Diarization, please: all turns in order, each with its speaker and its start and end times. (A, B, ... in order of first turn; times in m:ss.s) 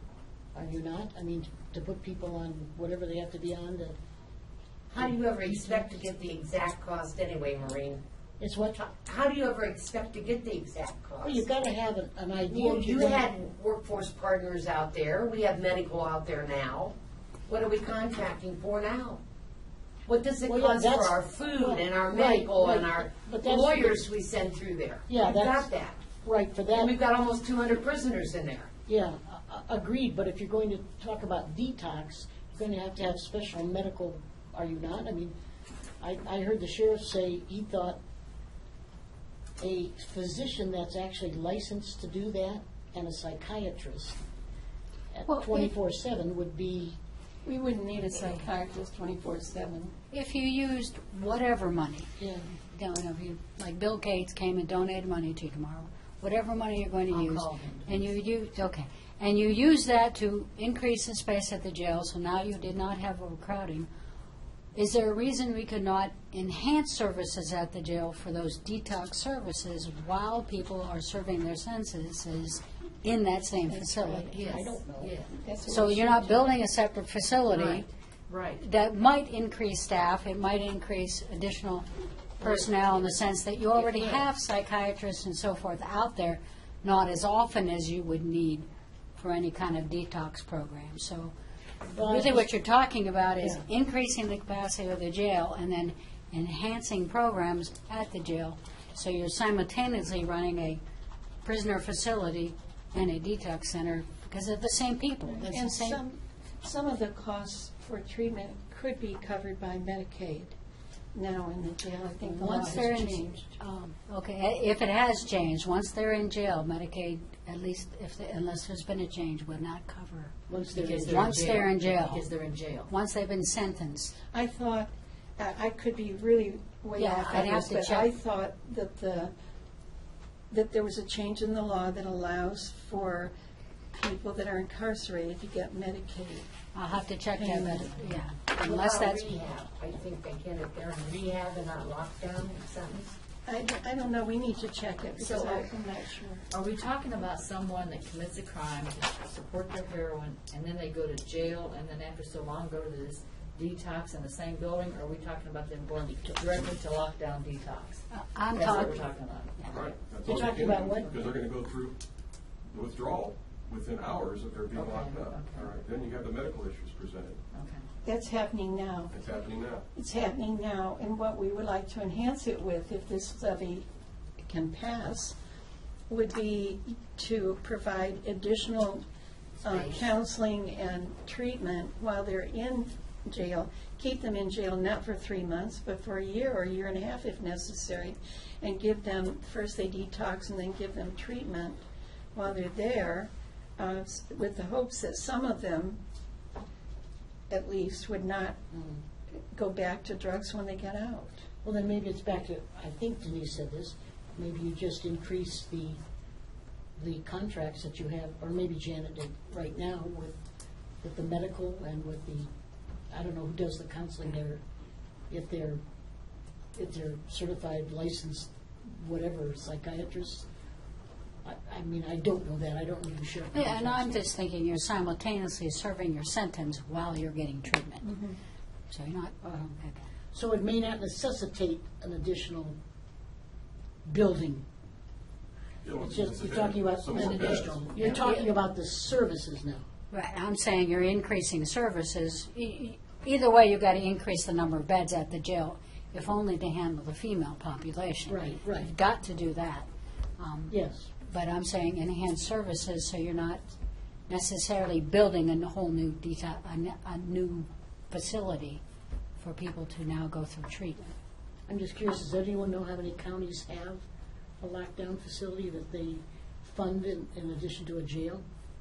0:00.5-0:04.0 A
0:04.9-0:08.0 B
0:08.4-0:08.8 A
0:08.8-0:11.4 B
0:11.2-0:13.3 A
0:12.4-0:16.9 B
0:17.5-0:19.2 B
0:20.0-0:26.0 B
0:20.4-0:24.1 A
0:25.1-0:25.7 A
0:26.2-0:27.0 A
0:26.7-0:28.7 B
0:28.8-0:35.3 A
0:36.0-0:38.0 A
0:39.6-0:44.2 A
0:45.1-0:47.0 A
0:45.3-0:45.7 C
0:47.4-0:49.9 D
0:50.1-0:52.1 C
0:52.2-0:52.5 A
0:52.7-1:03.9 C
0:57.1-0:58.1 E
1:04.7-1:14.3 C
1:14.0-1:15.3 E
1:14.4-1:15.1 A
1:15.3-1:16.4 D
1:15.7-1:17.9 C
1:17.5-1:18.6 E
1:18.6-1:21.8 C
1:22.4-1:31.3 C
1:22.4-1:23.2 E
1:23.8-1:24.2 E
1:31.9-1:32.5 A
1:32.0-1:40.8 C
1:41.4-1:46.0 C
1:45.4-1:50.6 D
1:51.1-1:53.5 D
1:52.3-2:00.4 C
2:00.5-2:01.6 A
2:00.7-2:02.9 E
2:01.0-2:02.3 C
2:02.9-2:04.1 C
2:04.3-2:09.3 D
2:07.0-2:08.1 C
2:10.5-2:13.3 D
2:13.9-2:16.4 D
2:16.7-2:19.4 C
2:17.3-2:17.9 D
2:18.6-2:23.1 B
2:23.4-2:26.4 D
2:25.2-2:25.7 E
2:26.5-2:40.7 E
2:38.1-2:39.1 C
2:39.7-2:42.0 F
2:40.2-2:41.1 A
2:42.7-2:47.4 F
2:44.7-2:45.8 E
2:47.5-2:47.8 E
2:48.0-2:49.1 D
2:49.1-2:49.8 F
2:49.9-2:53.9 D
2:54.4-2:55.4 D
2:56.1-2:59.0 D
2:59.6-3:11.8 D
2:59.6-3:00.1 E
3:12.3-3:16.0 D
3:17.5-3:18.6 D
3:18.7-3:19.0 A
3:19.4-3:21.4 D
3:21.6-3:26.0 A
3:27.0-3:30.4 A
3:31.0-3:32.5 A
3:33.1-3:34.6 A
3:35.3-3:35.8 A
3:36.7-3:40.5 A
3:41.4-3:44.2 A
3:43.5-3:48.1 C
3:48.1-3:48.4 D
3:48.9-3:50.1 C
3:50.3-3:52.8 A
3:54.0-3:54.6 A
3:55.8-3:58.0 F
3:56.0-3:59.8 A
3:58.0-3:58.4 E
4:00.1-4:09.8 C
4:08.3-4:08.9 A
4:10.4-4:13.6 C
4:10.7-4:11.1 A
4:14.3-4:18.8 C
4:19.4-4:21.1 C
4:21.7-4:24.0 A
4:24.6-4:28.4 A